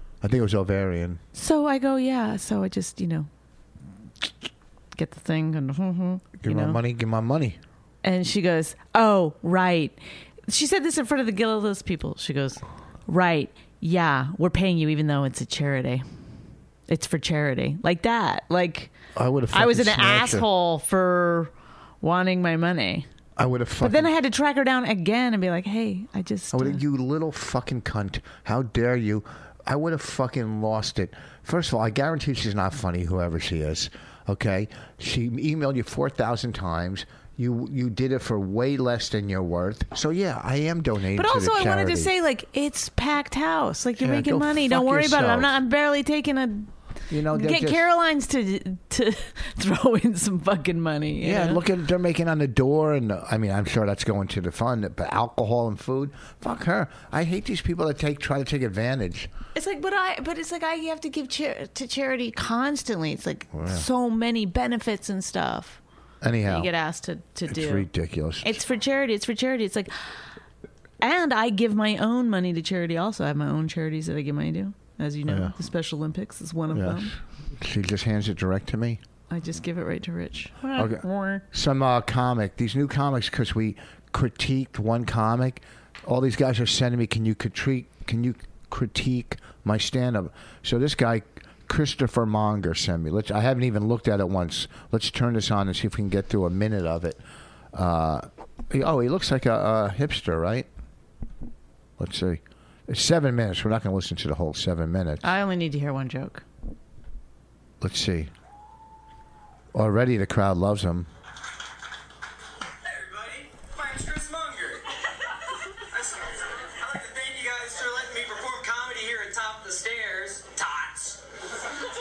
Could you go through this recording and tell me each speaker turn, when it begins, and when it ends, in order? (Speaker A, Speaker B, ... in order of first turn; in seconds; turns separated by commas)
Speaker A: 0.2-1.2, Speaker B: 1.4-3.3, Speaker B: 4.9-6.8, Speaker A: 6.4-7.6, Speaker B: 8.0-16.0, Speaker B: 16.9-18.9, Speaker A: 19.2-20.5, Speaker B: 19.5-23.1, Speaker A: 23.4-24.1, Speaker B: 23.8-26.8, Speaker A: 26.5-42.1, Speaker B: 41.1-46.7, Speaker A: 44.0-45.5, Speaker A: 47.1-47.9, Speaker B: 47.3-51.6, Speaker A: 51.2-59.3, Speaker B: 59.5-65.8, Speaker A: 63.5-63.9, Speaker A: 66.2-66.7, Speaker B: 66.5-67.9, Speaker A: 67.5-68.6, Speaker B: 68.4-69.9, Speaker B: 71.0-77.1, Speaker A: 75.3-75.5, Speaker A: 76.7-79.0, Speaker B: 79.3-81.4, Speaker A: 80.8-97.2, Speaker A: 97.7-100.7, Speaker A: 102.0-105.3, Speaker B: 105.2-106.4, Speaker A: 107.8-108.3, Speaker A: 109.7-111.1, Speaker C: 112.8-114.9, Speaker C: 115.9-121.2